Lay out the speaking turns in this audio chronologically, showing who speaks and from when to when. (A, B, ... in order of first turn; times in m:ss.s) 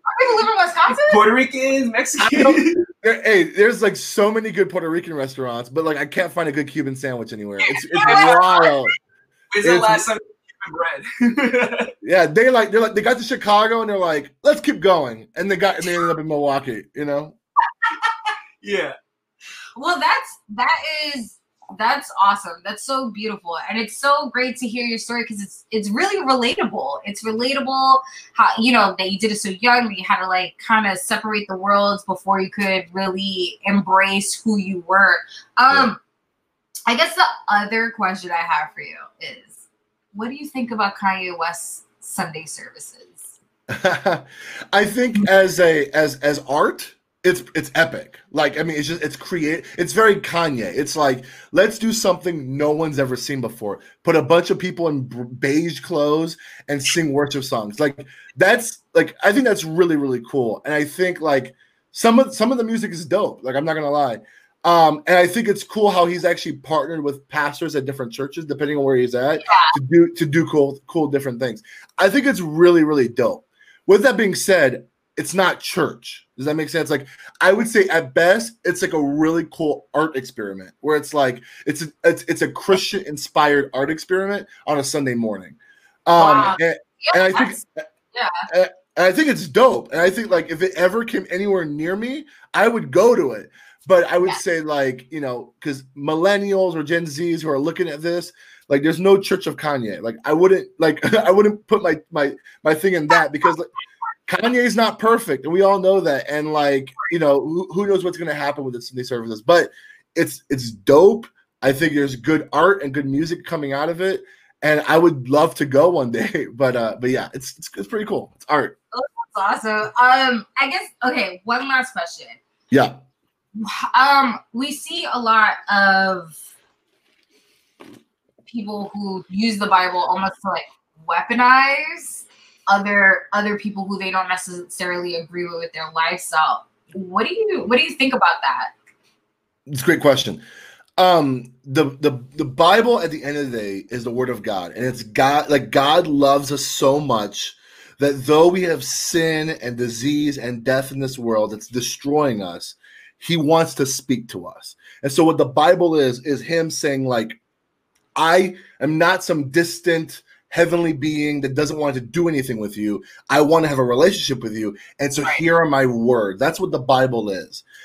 0:00.1-0:01.2 A
0:01.1-0:02.8 B
0:02.2-0:09.0 C
0:08.0-0:08.6 B
0:08.1-0:08.4 A
0:09.5-0:11.9 B
0:09.6-0:10.1 C
0:12.0-0:17.4 C
0:18.6-0:19.0 B
0:19.8-0:36.0 A
0:36.9-0:43.3 A
0:43.7-1:27.8 C
1:09.5-1:09.7 A
1:26.2-1:27.6 A
1:28.1-1:28.5 A
1:28.5-1:43.7 C
1:44.3-1:58.8 C
1:58.9-2:02.4 A
2:02.7-2:03.0 C
2:03.6-2:06.4 A
2:08.5-2:18.7 A
2:19.7-2:20.4 C
2:21.0-2:37.4 C
2:38.2-2:47.6 C